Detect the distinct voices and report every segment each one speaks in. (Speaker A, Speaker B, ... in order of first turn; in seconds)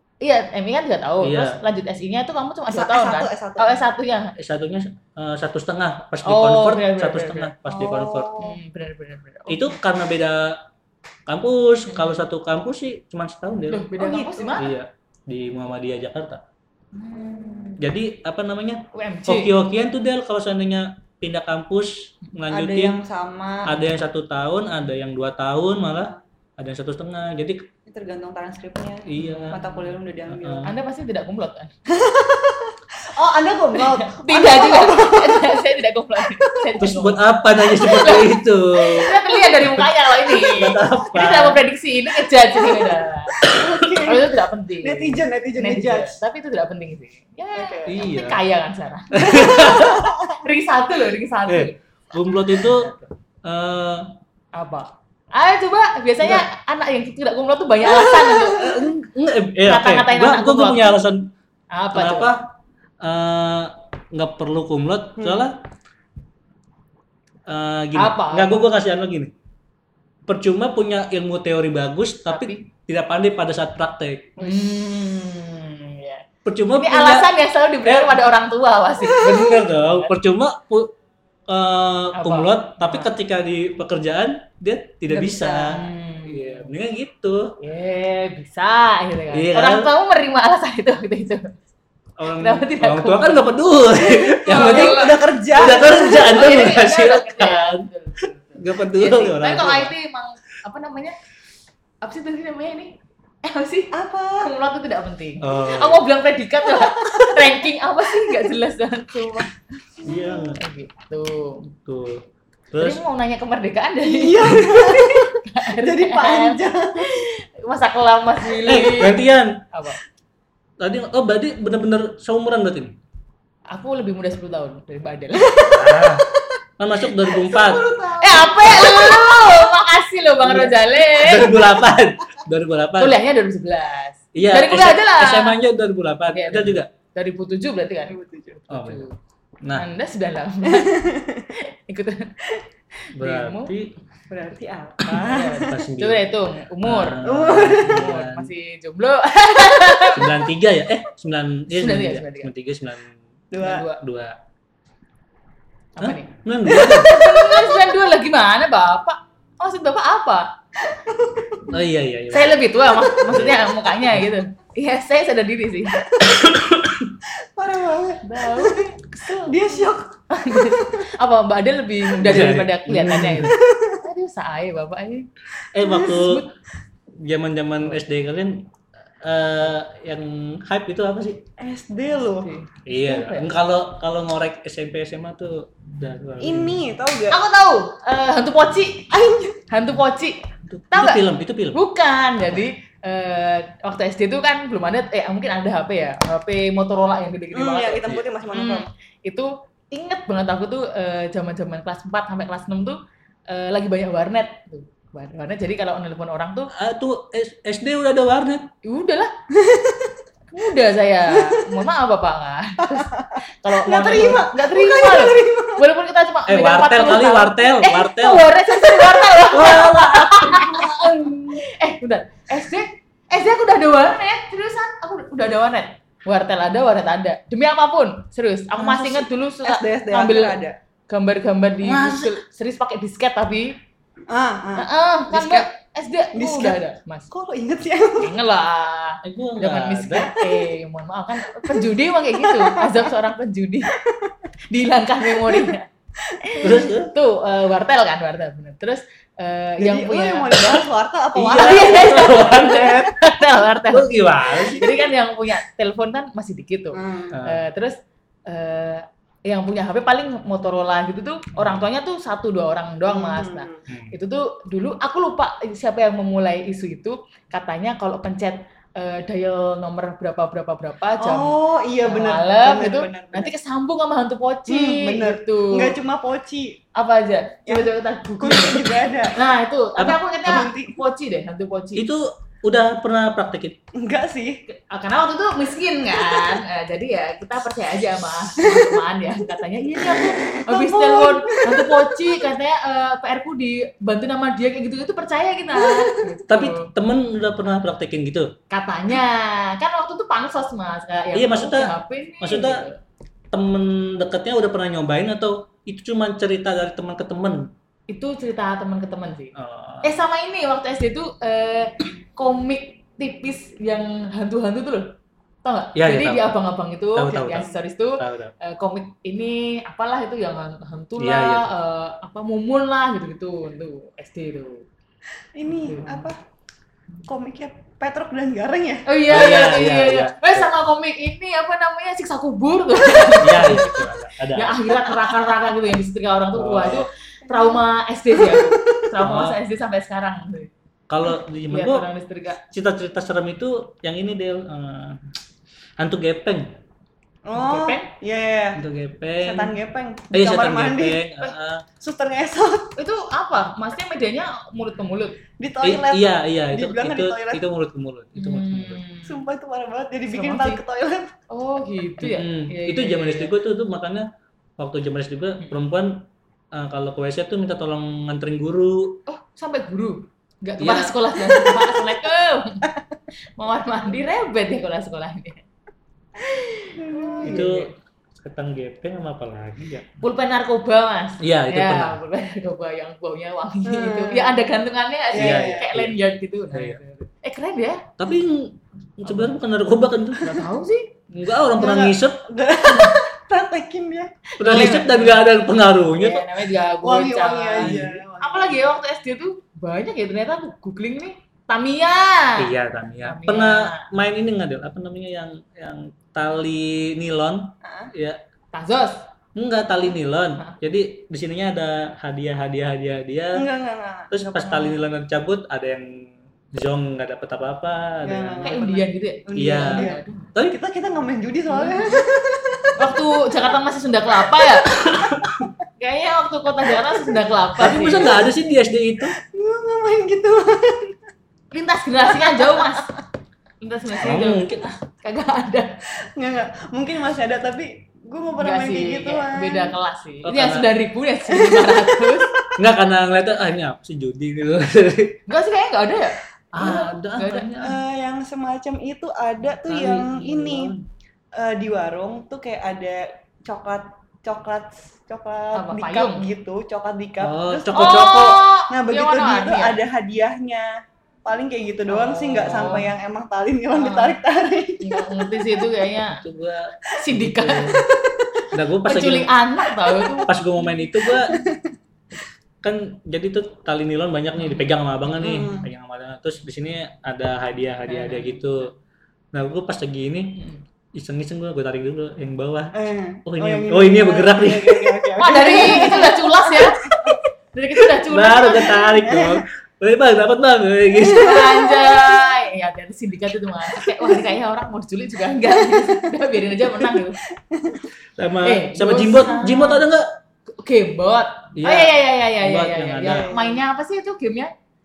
Speaker A: 0.2-4.3, 6.2-7.5, 8.4-9.8, 11.9-12.2, 13.7-14.8, 18.9-19.5, 29.2-29.7, 30.6-31.7, 33.8-51.7, 52.3-53.0, 54.5-58.9, 59.6-61.0, 61.7-62.3, 67.9-68.6, 72.3-72.6, 74.4-76.2, 76.8-80.1, 82.2-83.1, 85.1-86.7, 87.6-91.5, 92.4-93.5, 94.3-101.2, 102.0-109.5, 110.6-111.7, 112.8-120.0, 123.7-126.0, 128.2-131.6, 133.0-135.6, 136.3-138.2, 138.7-139.1, 139.8-142.6, 143.2-143.7, 145.1-150.4, 151.7-152.5, 153.6-154.0, 156.0-160.5, 162.3-166.0, 168.2-175.3, 176.0-176.5, 182.3-183.5, 187.3-189.1, 189.7-206.7, 208.8-209.3, 210.5-233.8, 234.8-237.3, 238.2-243.9, 244.7-245.9, 246.5-250.8, 251.5-276.0, 276.9-282.1, 284.7-296.9, 298.7-303.0, 308.1-324.9, 325.7-326.3, 329.1-340.7, 341.7-342.6, 347.5-348.1, 353.0-355.4, 358.4-359.4, 360.3-360.8, 361.5-363.5, 369.3-372.9, 373.6-375.6, 376.4-377.9, 380.2-388.1, 389.2-389.6, 390.4-391.1, 394.6-395.5, 396.1-402.7, 403.2-404.0, 408.7-409.2, 418.6-420.5, 421.7-422.2, 423.0-424.9, 426.0-428.4, 431.7-433.1, 433.8-436.0, 438.6-442.5, 445.5-447.9, 455.7-456.4, 457.9-460.0, 462.1-463.1, 463.9-464.4, 465.0-466.4, 467.1-468.0, 469.1-470.5, 474.6-474.9, 478.1-478.9, 485.4-489.0, 491.3-497.4, 498.6-500.0, 500.8-504.7
Speaker B: 1.2-1.6, 4.4-8.3, 9.5-10.6, 11.3-13.9, 14.6-16.4, 17.8-23.0, 23.6-27.7, 29.1-29.6, 30.3-30.7, 36.8-39.1, 40.4-41.6, 47.9-48.4, 49.1-50.1, 51.5-52.9, 53.4-54.1, 56.2-56.5, 58.4-61.3, 61.9-65.6, 67.5-69.3, 70.3-74.3, 76.4-77.3, 77.8-78.2, 79.1-80.9, 81.5-87.6, 89.3-89.9, 92.2-99.9, 105.4-106.0, 110.0-110.6, 111.8-113.0, 118.6-119.6, 120.8-122.9, 125.6-126.2, 126.8-127.8, 130.4-133.2, 134.3-136.9, 138.7-139.1, 143.1-143.9, 145.7-146.3, 146.8-148.5, 150.1-153.1, 153.9-154.3, 156.0-157.1, 161.7-162.6, 163.2-163.6, 166.2-167.1, 172.2-173.5, 175.7-176.4, 177.2-178.7, 179.2-181.4, 182.8-186.8, 190.7-191.8, 206.7-208.7, 216.5-218.5, 219.5-220.9, 231.8-232.3, 239.2-240.3, 246.6-247.1, 251.3-254.9, 257.3-257.6, 261.6-261.8, 263.9-264.1, 281.9-283.8, 296.5-298.5, 301.3-302.9, 303.5-307.7, 309.5-310.2, 315.9-316.6, 317.1-318.5, 321.2-321.7, 329.3-330.7, 333.3-335.1, 336.5-337.1, 339.2-339.6, 341.1-342.0, 342.7-345.2, 346.0-346.8, 348.8-349.7, 350.3-351.8, 355.8-359.0, 362.2-369.2, 370.8-371.7, 377.4-380.1, 381.4-382.2, 385.3-386.2, 386.7-387.0, 388.2-390.6, 391.3-392.4, 394.6-396.4, 397.8-398.2, 402.6-408.4, 409.6-413.6, 414.3-418.7, 419.5-420.8, 424.9-425.7, 427.8-429.4, 434.2-434.9, 440.4-440.9, 442.8-445.4, 446.7-447.9, 449.9-451.0, 457.4-458.6, 462.6-463.0, 466.3-468.0, 468.7-469.5, 470.5-471.6, 472.8-478.9, 479.5-480.6, 481.1-485.3, 488.3-491.6, 498.4-500.2, 501.8-503.5
Speaker C: 2.7-3.8, 7.6-8.6, 14.0-14.6, 16.9-17.8, 22.5-23.8, 27.9-30.7, 31.9-35.6, 36.2-36.8, 37.7-38.3, 38.9-39.4, 42.5-46.2, 47.5-47.9, 49.7-50.1, 58.1-58.7, 65.2-65.5, 79.2-79.5, 94.3-96.3, 103.9-104.5, 106.8-107.4, 108.2-108.5, 110.0-110.5, 114.0-117.3, 127.3-129.7, 138.1-138.6, 140.7-141.4, 144.3-145.7, 147.2-148.0, 153.5-153.9, 156.9-157.8, 160.9-161.6, 163.2-163.7, 167.2-171.1, 173.5-174.0, 175.9-176.1, 181.6-182.5, 186.4-187.4, 189.1-189.6, 197.5-198.9, 209.5-210.2, 211.3-211.8, 213.0-215.8, 218.7-221.6, 228.8-230.8, 234.3-235.6, 236.3-238.3, 241.6-243.1, 243.9-244.5, 245.3-245.7, 246.2-246.8, 249.8-252.9, 256.9-257.3, 263.1-263.8, 271.2-273.5, 274.7-276.8, 277.7-279.3, 280.4-281.0, 283.9-284.6, 288.6-289.0, 290.1-292.5, 295.7-296.3, 325.5-326.4, 327.2-329.1, 337.4-339.1, 347.4-348.8, 349.4-351.2, 352.0-352.9, 355.6-357.6, 359.2-361.3, 377.0-377.7, 383.8-384.6, 385.3-385.9, 391.8-394.9, 397.0-398.9, 407.8-408.1, 413.5-414.7, 418.2-423.6, 424.4-425.7, 426.9-428.4, 429.4-431.2, 432.3-433.0, 436.2-439.9, 441.5-442.7, 447.8-450.9, 451.5-465.9, 468.2-468.5, 470.0-470.4, 471.2-471.9, 475.4-475.9, 482.9-487.4, 488.7-489.6, 491.1-492.6, 493.9-494.6, 495.6-498.1, 503.2-503.8